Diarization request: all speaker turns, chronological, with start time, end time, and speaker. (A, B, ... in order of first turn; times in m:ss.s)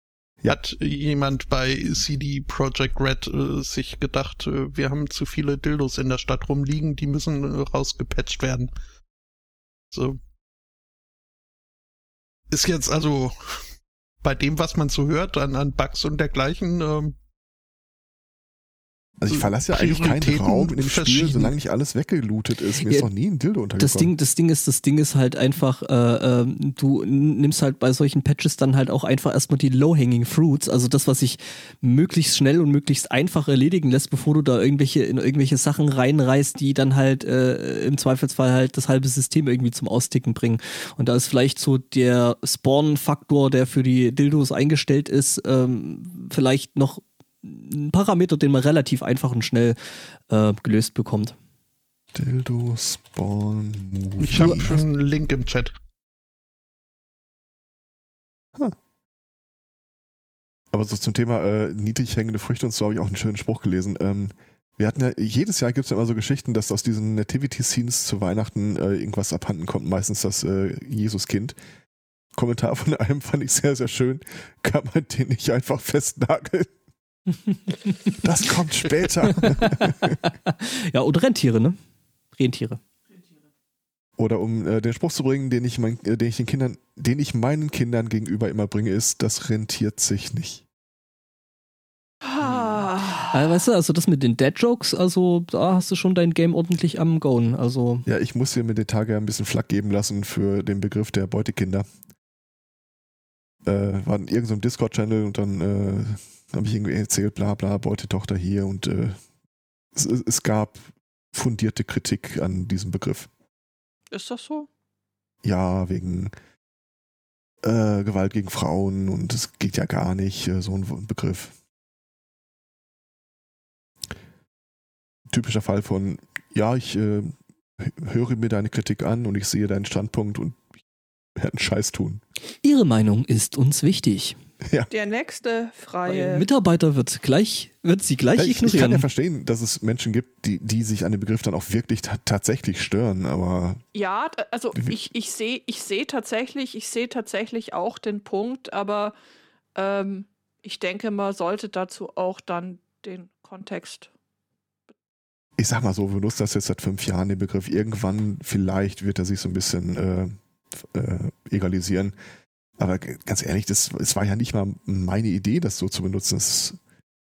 0:00.5-0:08.7 A
0:09.9-0:10.2 A
0:12.5-0:13.6 A
0:14.2-0:17.1 A
0:19.2-0:24.1 B
0:19.3-0:21.5 A
0:23.8-0:49.8 C
0:50.3-0:51.4 C
0:52.1-0:54.8 B
0:54.2-0:55.7 A
0:54.4-0:54.7 C
1:00.7-1:11.6 B
1:12.4-1:16.7 B
1:17.7-1:18.1 C
1:18.2-1:20.2 B
1:19.2-1:21.8 C
1:22.4-1:22.8 C
1:24.2-1:30.6 B
1:32.2-1:33.4 D
1:33.3-1:38.0 C
1:38.1-1:41.9 B
1:43.6-1:49.2 B
1:50.0-1:50.8 B
1:51.3-1:53.3 B
1:54.1-1:54.7 D
1:55.4-1:56.3 B
1:57.6-2:01.5 B
2:05.3-2:10.6 B
2:11.4-2:12.2 B
2:12.6-2:14.4 C
2:14.6-2:14.9 B
2:14.9-2:16.5 D
2:16.1-2:19.0 C
2:18.4-2:23.8 B
2:23.9-2:29.2 D
2:29.8-2:34.1 D
2:35.6-2:42.1 B
2:42.8-2:46.8 B